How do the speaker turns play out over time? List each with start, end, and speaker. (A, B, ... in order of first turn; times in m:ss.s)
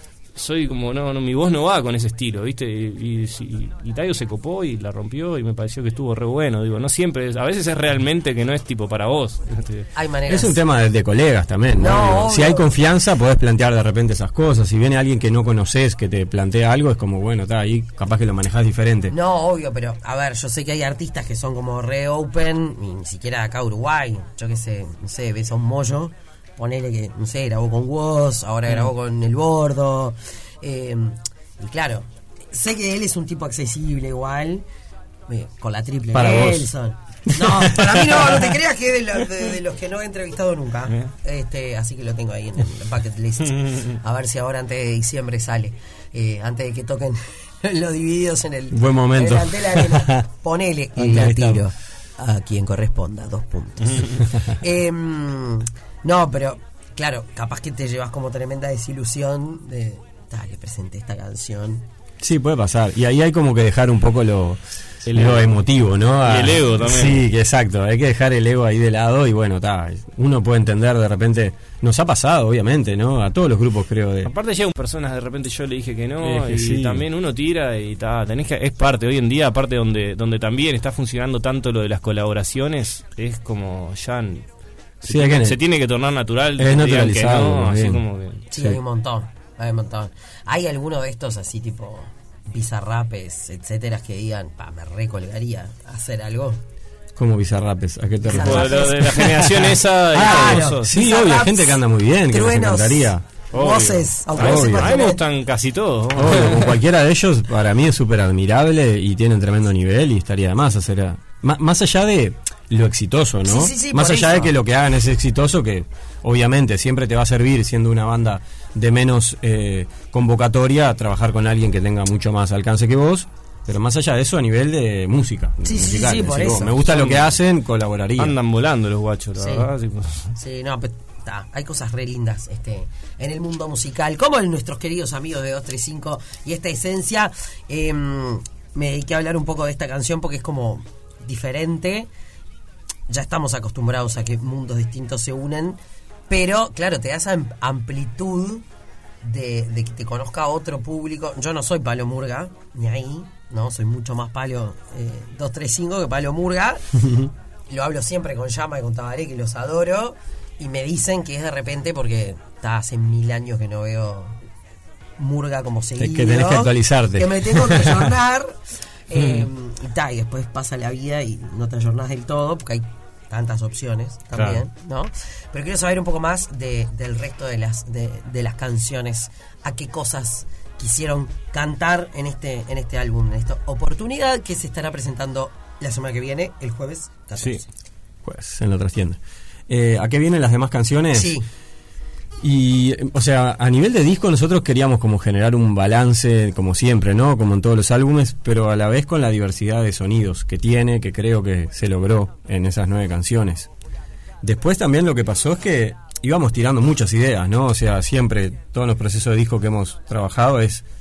0:00.4-0:09.9 A
0:10.0-0:10.6 B
0:10.3-0:19.1 C
0:11.8-0:12.7 B
0:19.1-0:34.6 B
0:35.3-1:01.8 B
0:36.1-0:36.7 C
0:37.3-0:38.5 C
0:48.7-0:50.2 C
0:51.0-0:51.6 C
0:53.9-0:54.1 A
1:02.2-1:14.3 C
1:05.1-1:05.6 A
1:06.2-1:07.2 A
1:14.2-1:24.4 A
1:16.2-1:17.1 C
1:25.0-1:28.4 A
1:25.0-1:25.6 C
1:26.6-1:28.0 C
1:28.5-1:36.6 B
1:28.5-1:28.8 C
1:37.2-1:43.2 C
1:38.3-1:39.4 B
1:38.3-1:40.9 A
1:40.1-1:45.2 B
1:43.5-1:46.8 A
1:44.4-1:45.0 C
1:46.1-2:08.4 C
1:53.4-1:54.5 B
2:05.6-2:06.9 B
2:06.9-2:07.3 A
2:08.2-2:10.3 A
2:09.4-2:09.7 B
2:10.4-2:22.1 B
2:23.1-2:28.6 B
2:29.2-2:44.4 B
2:45.2-2:48.6 B
2:46.0-2:48.1 C
2:49.1-3:07.6 B
2:54.4-2:54.6 A
3:08.2-3:11.4 C
3:11.2-3:11.4 B
3:12.4-3:23.7 C
3:24.4-3:30.8 C